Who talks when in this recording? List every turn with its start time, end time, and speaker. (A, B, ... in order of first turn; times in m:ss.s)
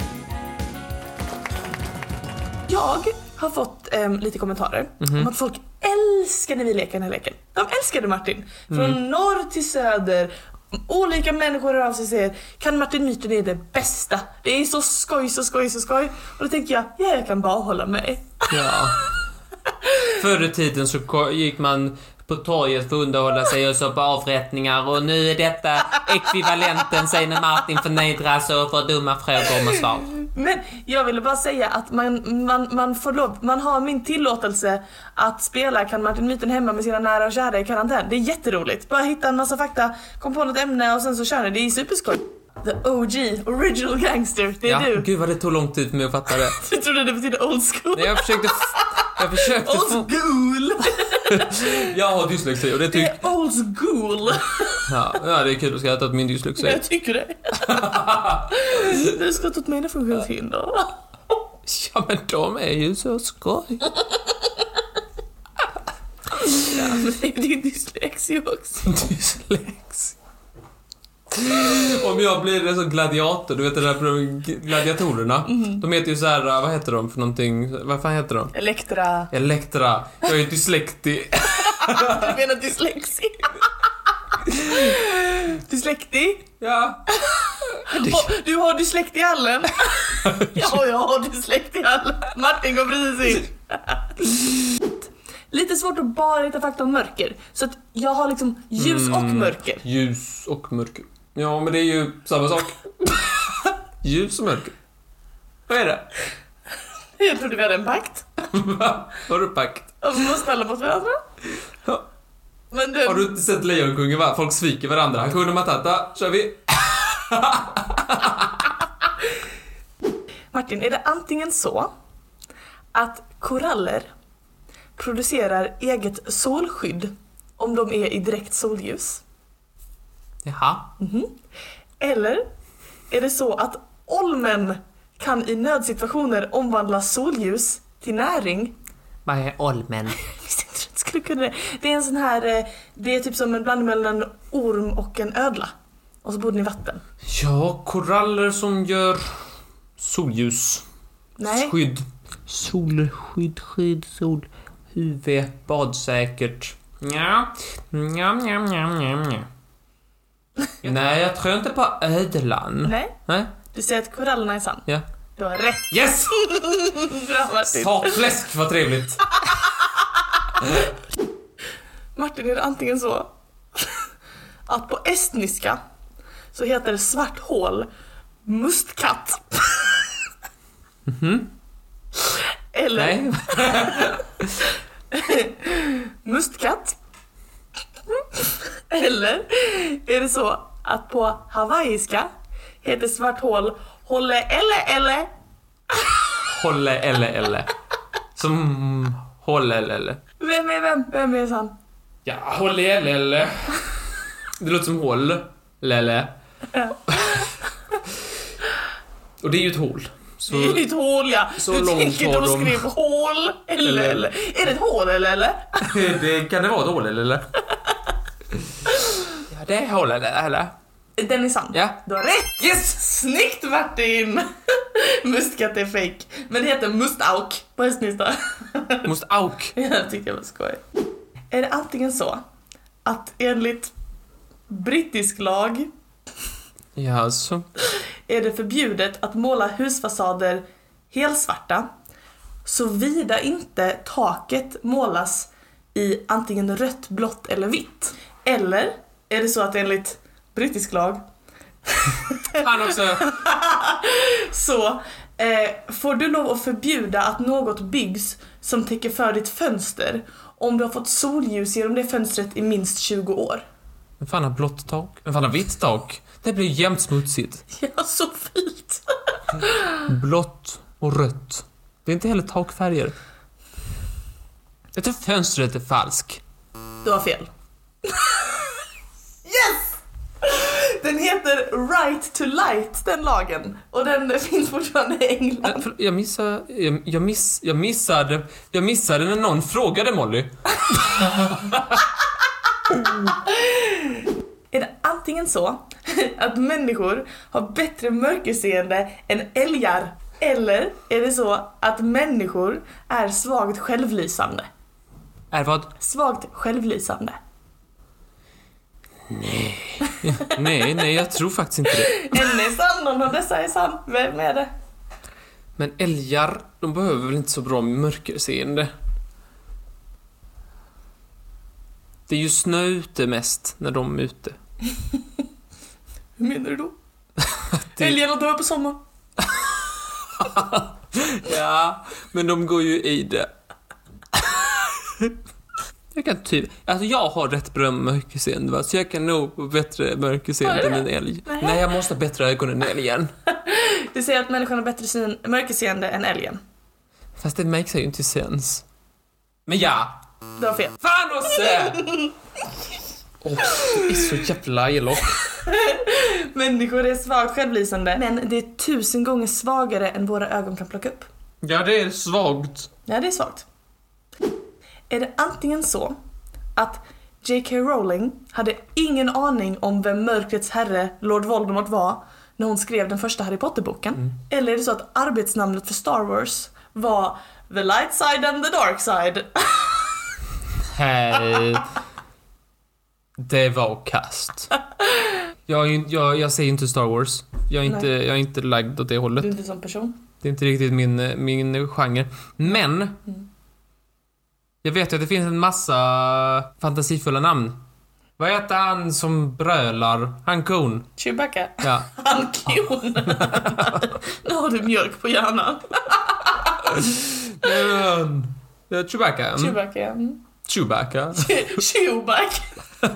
0:02.7-0:19.1 A
0:05.0-0:05.3 B
0:08.7-0:09.0 B
0:18.5-0:19.0 B
0:19.8-0:20.1 A
0:20.1-0:30.1 B
0:30.1-0:45.1 A
0:44.7-0:46.6 B
0:46.3-0:51.9 A
0:47.9-0:50.2 B
0:51.0-0:53.2 B
0:52.9-0:54.9 A
0:54.9-0:56.8 B
0:56.6-1:00.9 A
0:57.6-0:59.0 B
1:01.7-1:03.9 B
1:06.4-1:08.9 A
1:08.9-1:10.2 B
1:11.3-1:18.5 B
1:15.5-1:15.8 A
1:18.5-1:19.3 A
1:19.3-1:22.4 B
1:21.5-1:23.7 A
1:24.5-1:26.5 A
1:26.6-1:27.1 B
1:27.1-1:34.4 A
1:27.9-1:28.3 B
1:30.2-1:30.7 B
1:35.5-1:39.8 A
1:38.8-1:44.8 B
1:45.7-1:46.1 B
1:47.2-1:48.4 A
1:48.5-1:50.0 B
1:50.0-1:51.2 A
1:52.7-1:53.3 A
1:53.0-1:58.8 B
2:00.5-2:01.9 A
2:02.9-2:04.1 A
2:05.0-2:09.2 A
2:10.4-2:10.9 B
2:11.0-2:11.4 A
2:12.0-2:12.5 A
2:13.1-2:18.8 A
2:19.3-2:20.2 B
2:20.2-2:25.7 A
2:26.2-2:27.0 A
2:27.2-2:29.3 B
2:30.0-2:30.8 B
2:31.4-2:31.8 A
2:31.4-2:39.5 B
2:40.8-2:43.5 B
2:42.8-2:43.2 A
2:43.7-2:48.2 A
2:45.9-2:46.4 B
2:47.7-2:49.2 B
2:49.4-2:49.8 A
2:52.2-2:54.0 A
2:54.7-2:55.8 A
2:56.5-2:57.9 A
2:58.5-3:00.0 A
3:01.1-3:01.5 B
3:02.3-3:04.2 A
3:02.9-3:04.5 B
3:05.1-3:07.0 A
3:08.2-3:12.3 A
3:12.8-3:15.3 A
3:16.4-3:17.7 B
3:18.4-3:20.2 B
3:20.4-3:21.8 A
3:22.2-3:23.9 B
3:24.6-3:26.3 B
3:26.7-3:27.5 A
3:27.1-3:27.4 B
3:29.4-3:30.9 B
3:30.5-3:36.0 A
3:31.6-3:32.8 B
3:33.8-3:34.3 B
3:35.8-3:37.5 B
3:38.9-3:39.3 A
3:39.5-3:40.7 B
3:41.2-3:49.1 A
3:41.7-3:42.0 B
3:49.0-3:49.7 B
3:49.8-3:50.8 A
3:51.5-3:52.4 A
3:53.0-3:53.9 A
3:54.7-3:55.9 A
3:57.0-3:57.7 B
3:58.3-4:01.9 A
4:02.6-4:11.2 A
4:11.9-4:12.7 A
4:12.5-4:13.4 B
4:13.2-4:23.6 A
4:24.2-4:27.6 B
4:27.7-4:29.0 A
4:29.6-4:30.0 A
4:30.0-4:33.1 B
4:35.0-4:36.4 B
4:37.0-4:37.5 A
4:38.0-4:38.7 A
4:39.4-4:45.8 A
4:45.6-4:52.0 B
4:53.2-5:04.7 A
5:05.5-5:05.9 B
5:06.0-5:07.4 A
5:09.3-5:12.6 B
5:10.1-5:10.6 A
5:11.9-5:14.7 A
5:15.8-5:18.9 B
5:22.3-5:24.6 B
5:26.4-5:27.0 A
5:27.7-5:28.2 B
5:28.0-5:29.0 A
5:29.4-5:29.7 B
5:30.2-5:33.5 B
5:34.3-5:35.4 B
5:36.1-5:43.3 B
5:40.6-5:41.8 A
5:43.5-5:46.6 A
5:47.4-5:48.8 B
5:49.7-5:50.1 B
5:50.6-5:52.3 A
5:51.0-5:52.0 B
5:53.4-5:55.4 B
5:53.8-5:54.2 A
5:55.5-6:01.3 A
6:01.6-6:02.9 B
6:03.1-6:03.7 A
6:05.1-6:06.2 A
6:06.8-6:20.3 A
6:20.8-6:21.9 B
6:23.4-6:24.7 B
6:25.7-6:29.5 B
6:29.4-6:30.2 A
6:30.4-6:33.2 B
6:34.8-6:37.8 B
6:38.4-6:41.1 B
6:41.2-6:46.8 A
6:41.8-6:42.1 B
6:43.3-6:44.1 B
6:46.8-6:49.8 B
6:49.6-6:50.4 A
6:50.6-6:51.7 B
6:51.4-6:52.7 A